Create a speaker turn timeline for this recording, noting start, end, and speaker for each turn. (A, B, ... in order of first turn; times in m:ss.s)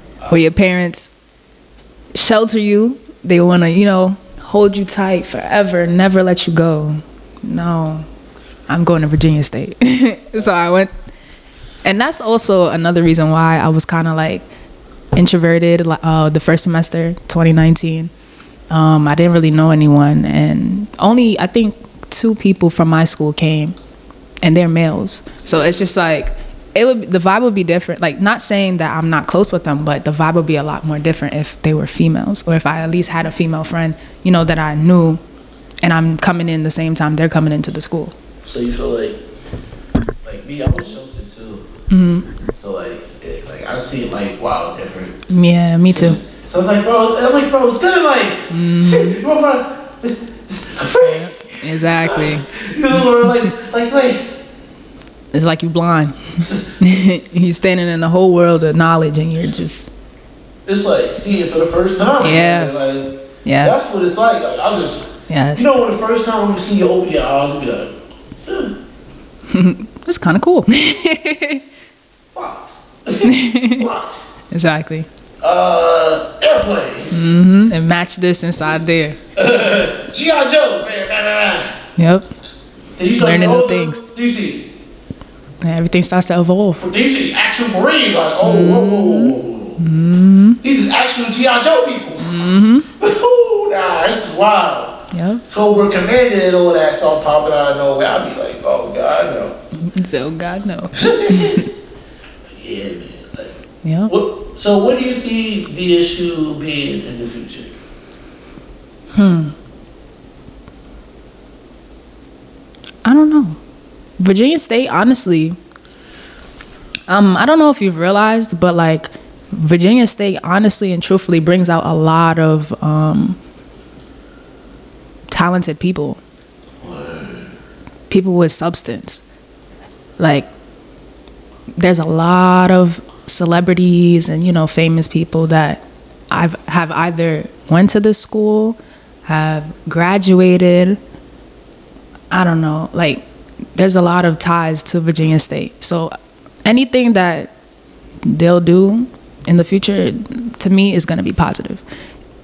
0:00.3-0:01.1 A
0:02.1-0:08.1 A
0:08.7-0:10.9 A
0:11.8-0:14.4 A
0:15.1-0:18.1 A
0:18.7-0:23.8 A
0:24.4-0:35.2 A
0:25.4-0:25.7 B
0:35.8-0:38.1 A
0:38.4-0:39.2 B
0:40.2-0:41.6 B
0:41.9-0:42.3 A
0:42.5-0:45.2 B
0:45.3-0:46.2 A
0:45.9-0:54.2 B
0:48.5-0:49.2 A
0:51.0-0:53.5 A
0:55.3-0:59.9 A
0:56.4-0:56.8 B
1:00.7-1:07.9 B
1:02.2-1:03.8 A
1:05.3-1:05.7 A
1:08.4-1:08.7 B
1:09.5-1:11.6 A
1:12.3-1:14.3 B
1:13.2-1:13.8 A
1:14.5-1:15.1 A
1:15.4-1:17.1 B
1:17.1-1:19.2 A
1:19.3-1:21.8 B
1:22.0-1:22.3 A
1:23.0-1:24.7 B
1:23.2-1:24.0 A
1:25.6-1:26.8 A
1:26.8-1:29.8 B
1:28.4-1:30.6 A
1:30.6-1:39.6 B
1:32.2-1:32.9 A
1:35.1-1:35.4 A
1:39.7-1:41.6 A
1:40.9-1:41.7 B
1:42.6-1:47.7 B
1:43.8-1:44.1 A
1:49.1-1:49.5 A
1:53.0-1:53.6 A
1:54.2-1:55.6 A
1:57.1-2:03.4 A
2:05.3-2:06.2 A
2:06.8-2:07.5 B
2:08.1-2:09.2 A
2:10.2-2:10.5 A
2:11.8-2:21.0 A
2:22.3-2:26.1 A
2:26.6-2:27.5 A
2:28.2-2:31.8 A